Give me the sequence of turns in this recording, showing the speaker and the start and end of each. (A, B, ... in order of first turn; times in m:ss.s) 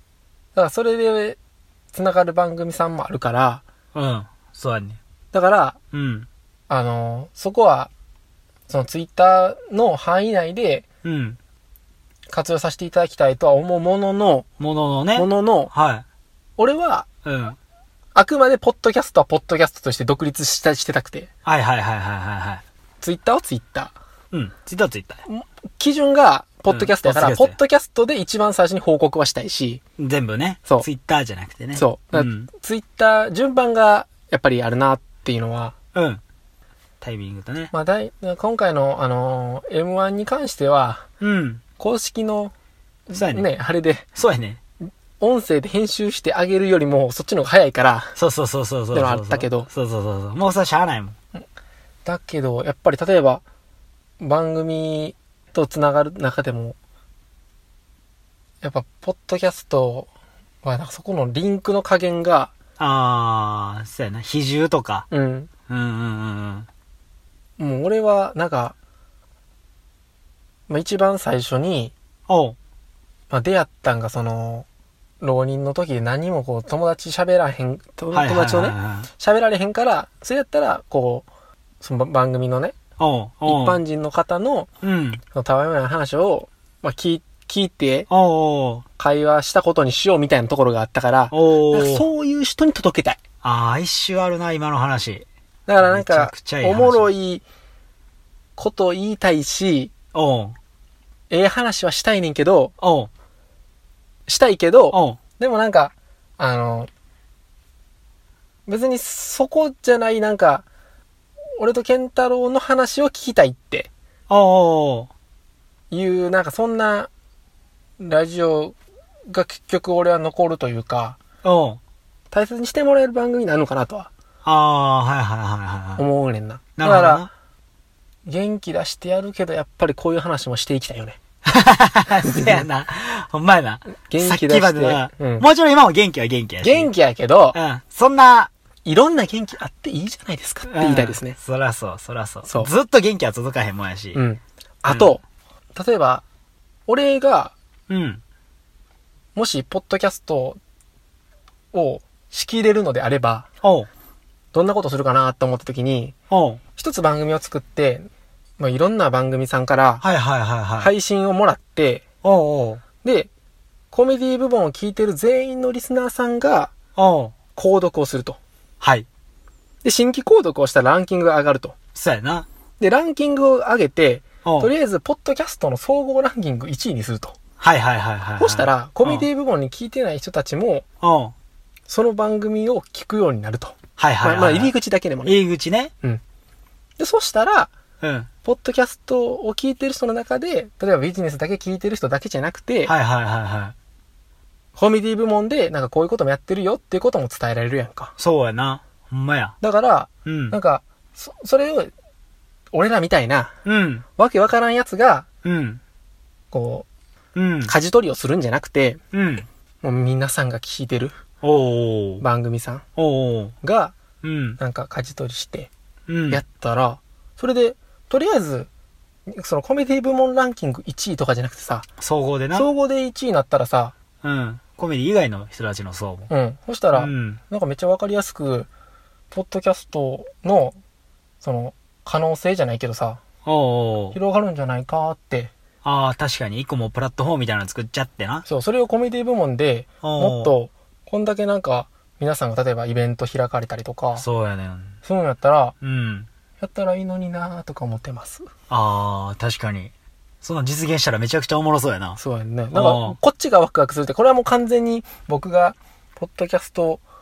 0:00.6-0:01.4 A
0:01.9-0:03.6 A
0:04.0-0:05.0 B
0:05.3-0:05.8 A
0:05.9-0:06.3 B
0:06.7-0:07.9 A
0:08.7-0:10.8 A
0:11.0-0:11.4 B
0:12.3-0:14.5 A
0:14.6-0:16.0 B
0:15.2-0:15.7 A
0:16.6-0:17.1 A
0:17.2-0:17.6 B
0:18.2-0:21.3 A
0:21.5-0:22.6 B
0:23.0-0:23.9 A
0:24.3-0:25.2 B
0:25.3-0:29.8 A
0:26.7-0:27.6 B
0:30.0-0:32.5 B
0:31.8-0:35.7 A
0:35.9-0:36.2 B
0:37.0-0:37.7 B
0:37.7-0:41.1 A
0:41.2-0:41.6 B
0:41.8-0:42.5 A
0:43.1-0:44.1 A
0:43.1-0:43.5 B
0:44.2-0:44.6 B
0:44.8-0:48.2 A
0:48.2-0:51.2 B
0:48.9-0:49.7 A
0:52.0-0:53.4 A
0:54.2-0:56.8 A
0:58.6-1:00.1 A
1:00.6-1:02.5 A
1:02.8-1:05.1 B
1:05.1-1:05.5 A
1:05.7-1:06.7 B
1:07.6-1:08.8 A
1:10.7-1:11.9 A
1:12.3-1:12.6 B
1:13.3-1:14.7 A
1:15.2-1:21.3 A
1:18.1-1:19.1 B
1:21.8-1:22.8 A
1:23.0-1:23.8 B
1:23.5-1:24.7 A
1:24.8-1:25.2 B
1:25.3-1:28.1 A
1:28.1-1:28.8 B
1:29.0-1:33.2 A
1:31.3-1:32.1 B
1:33.4-1:35.3 B
1:35.7-1:37.4 A
1:35.8-1:37.1 B
1:38.6-1:39.9 A
1:40.1-1:40.6 B
1:41.3-1:42.7 A
1:42.8-1:43.1 B
1:44.3-1:46.9 A
1:44.9-1:45.2 B
1:48.7-1:50.7 A
1:51.6-1:53.9 A
1:54.3-1:55.1 B
1:55.9-1:57.1 A
1:58.0-1:58.8 A
1:59.3-2:01.2 A
2:01.4-2:01.8 B
2:02.3-2:04.1 A
2:04.4-2:06.0 B
2:06.0-2:07.3 A
2:06.8-2:07.3 B
2:08.2-2:11.2 A
2:11.5-2:16.9 B
2:12.2-2:12.7 A
2:14.0-2:15.5 A
2:16.6-2:17.6 A
2:17.5-2:18.5 B
2:18.9-2:21.4 A
2:20.7-2:24.2 B
2:24.1-2:25.2 A
2:25.7-2:26.2 A
2:26.9-2:27.5 A
2:27.9-2:28.2 B
2:29.4-2:30.6 A
2:31.7-2:33.5 A
2:33.6-2:33.9 B
2:34.5-2:36.2 A
2:36.3-2:36.6 B
2:36.8-2:40.0 A
2:40.0-2:40.9 B
2:40.8-2:42.0 A
2:42.2-2:42.8 B
2:43.0-2:43.3 A
2:43.9-2:46.7 A
2:47.0-2:47.4 B
2:47.6-2:48.4 A
2:48.8-2:49.1 B
2:49.8-2:51.8 A
2:52.0-2:52.5 B
2:52.8-2:57.4 A
2:54.4-2:54.7 B
2:57.6-2:59.3 B
2:58.4-3:00.8 A
3:01.0-3:01.3 B
3:01.9-3:05.4 A
3:04.0-3:04.7 B
3:05.2-3:05.9 B
3:07.0-3:07.7 A
3:08.0-3:08.3 B
3:08.4-3:12.9 A
3:12.9-3:13.7 B
3:14.8-3:18.1 A
3:18.2-3:19.6 B
3:19.6-3:21.9 A
3:20.3-3:20.6 B
3:22.7-3:23.5 A
3:23.6-3:24.0 B
3:24.2-3:25.3 A
3:25.4-3:25.8 B
3:26.5-3:26.9 A
3:27.4-3:27.7 B
3:27.6-3:29.0 A
3:29.1-3:29.5 B
3:29.8-3:31.2 A
3:31.4-3:32.2 B
3:32.2-3:32.8 A
3:33.0-3:33.5 B
3:33.6-3:34.0 A
3:34.2-3:34.6 B
3:34.6-3:35.7 A
3:36.1-3:36.4 B
3:36.3-3:38.7 A
3:39.3-3:41.9 A
3:42.0-3:42.7 B
3:42.5-3:44.0 A
3:44.2-3:46.3 B
3:46.3-3:48.7 A
3:46.9-3:47.4 B
3:49.3-3:50.8 A
3:51.4-3:53.2 A
3:53.4-3:54.2 B
3:54.1-3:55.5 A
3:55.8-3:58.4 B
3:58.5-4:04.2 A
4:00.0-4:00.5 B
4:04.2-4:05.0 B
4:05.0-4:05.8 A
4:05.8-4:06.3 B
4:06.6-4:08.5 A
4:08.7-4:12.2 B
4:12.2-4:17.0 A
4:12.7-4:13.2 B